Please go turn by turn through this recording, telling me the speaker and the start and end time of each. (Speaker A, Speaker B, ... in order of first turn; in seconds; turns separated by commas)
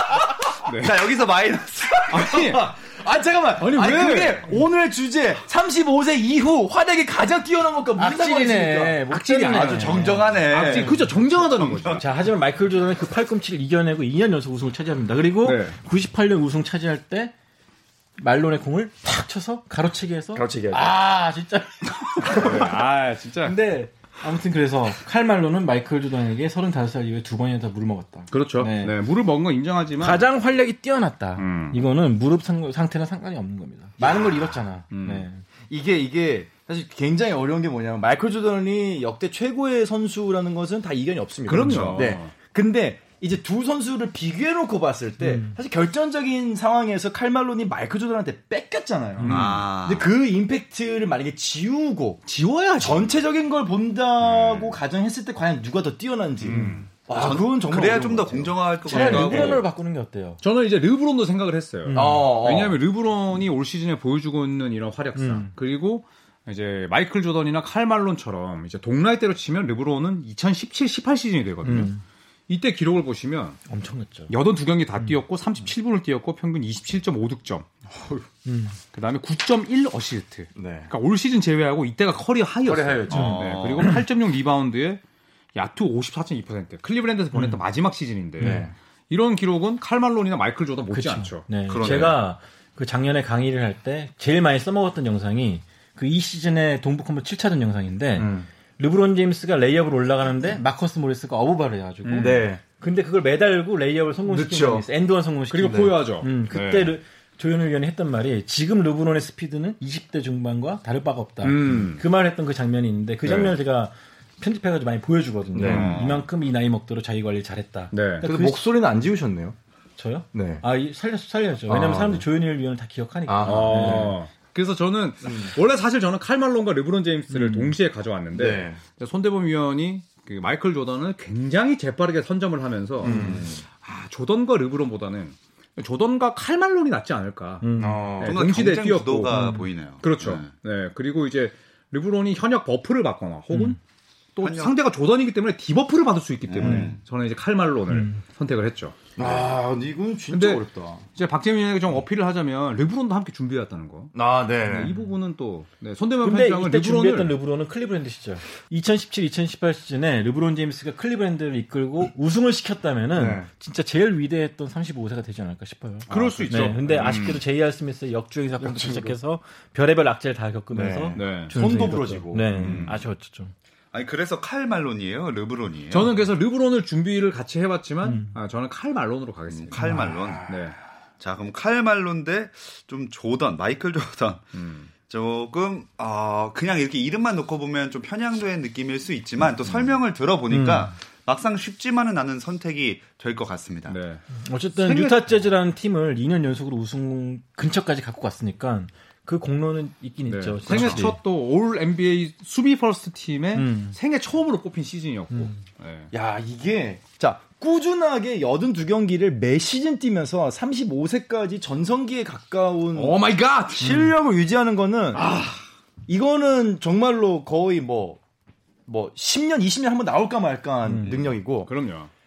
Speaker A: 0.6-1.1, Speaker B: 0.8-2.2, Speaker A: 2.1-2.7, Speaker C: 2.1-9.0, Speaker A: 3.6-4.4, Speaker D: 8.0-10.2, Speaker A: 9.1-12.0, Speaker B: 9.5-12.0, Speaker C: 10.7-10.9, Speaker D: 11.9-17.3, Speaker A: 15.4-15.8, Speaker D: 18.2-22.7, Speaker C: 20.3-20.9, Speaker A: 22.2-23.5, Speaker D: 23.4-28.9, Speaker A: 28.3-30.2, Speaker D: 30.0-35.4, Speaker A: 31.4-31.8, Speaker C: 34.0-34.4, Speaker A: 34.9-35.3, Speaker C: 35.7-52.2, Speaker A: 41.5-42.3, Speaker B: 41.5-42.1, Speaker D: 45.2-45.6, Speaker A: 49.2-49.6, Speaker B: 49.3-50.1, Speaker A: 52.2-53.1, Speaker C: 52.8-59.6, Speaker A: 56.4-56.9, Speaker B: 57.1-59.6, Speaker D: 58.9-60.4, Speaker A: 59.0-59.5, Speaker A: 60.4-71.9, Speaker D: 61.9-62.3, Speaker C: 61.9-62.8, Speaker D: 65.2-65.5, Speaker D: 71.6-72.0, Speaker A: 72.5-73.6, Speaker D: 73.7-74.3, Speaker A: 74.3-77.7, Speaker D: 78.4-78.8, Speaker A: 78.9-85.0, Speaker C: 80.5-80.9, Speaker C: 82.7-83.4, Speaker B: 83.1-84.0, Speaker D: 83.1-84.0, Speaker A: 85.5-92.1, Speaker D: 87.3-87.6, Speaker D: 88.4-88.7, Speaker C: 88.4-88.7, Speaker D: 90.9-118.6, Speaker B: 91.7-92.2, Speaker C: 98.2-98.5, Speaker A: 102.0-102.5, Speaker C: 102.2-102.6, Speaker C: 104.3-104.8, Speaker A: 105.5-106.9, Speaker C: 105.6-105.9, Speaker A: 111.4-112.0, Speaker A: 113.2-113.5, Speaker C: 115.5-116.0, Speaker A: 115.6-116.1, Speaker B: 115.6-116.2, Speaker A: 117.9-118.2, Speaker C: 118.2-119.5, Speaker D: 120.0-124.2, Speaker C: 120.3-120.6, Speaker C: 121.7-122.2, Speaker C: 123.3-124.2, Speaker A: 123.4-139.4, Speaker C: 125.2-125.5, Speaker D: 127.3-127.7, Speaker C: 128.3-128.8, Speaker C: 133.0-133.6, Speaker D: 133.1-133.3, Speaker B: 133.1-133.6, Speaker D: 137.6-138.2, Speaker C: 137.8-138.4, Speaker B: 138.2-140.5, Speaker D: 139.3-139.7, Speaker A: 140.0-143.8, Speaker D: 143.5-143.8, Speaker A: 144.3-149.3, Speaker B: 144.4-144.7, Speaker B: 146.5-147.0, Speaker D: 146.6-146.9, Speaker D: 147.9-148.2, Speaker C: 149.2-151.0, Speaker A: 150.3-157.3, Speaker C: 154.1-154.9, Speaker D: 156.2-173.5, Speaker C: 163.1-163.5, Speaker A: 166.1-167.4, Speaker C: 166.1-166.8, Speaker C: 168.6-169.1, Speaker C: 170.7-172.8, Speaker A: 171.1-171.5, Speaker A: 172.5-172.9, Speaker B: 172.6-173.0, Speaker B: 173.9-176.1, Speaker A: 175.9-179.9, Speaker D: 178.0-178.3, Speaker B: 179.5-180.5, Speaker D: 179.7-180.3, Speaker A: 180.4-180.8, Speaker B: 181.2-194.0, Speaker A: 184.5-184.9, Speaker D: 190.5-190.9, Speaker A: 193.8-194.2, Speaker D: 194.4-201.2, Speaker A: 194.7-195.5, Speaker A: 200.3-206.1, Speaker B: 200.7-201.0, Speaker D: 203.5-203.9, Speaker D: 205.3-205.6, Speaker C: 206.1-213.2, Speaker A: 212.9-214.1, Speaker C: 213.8-215.3, Speaker A: 215.1-215.6, Speaker C: 216.1-218.2, Speaker C: 218.9-221.7, Speaker A: 221.0-222.1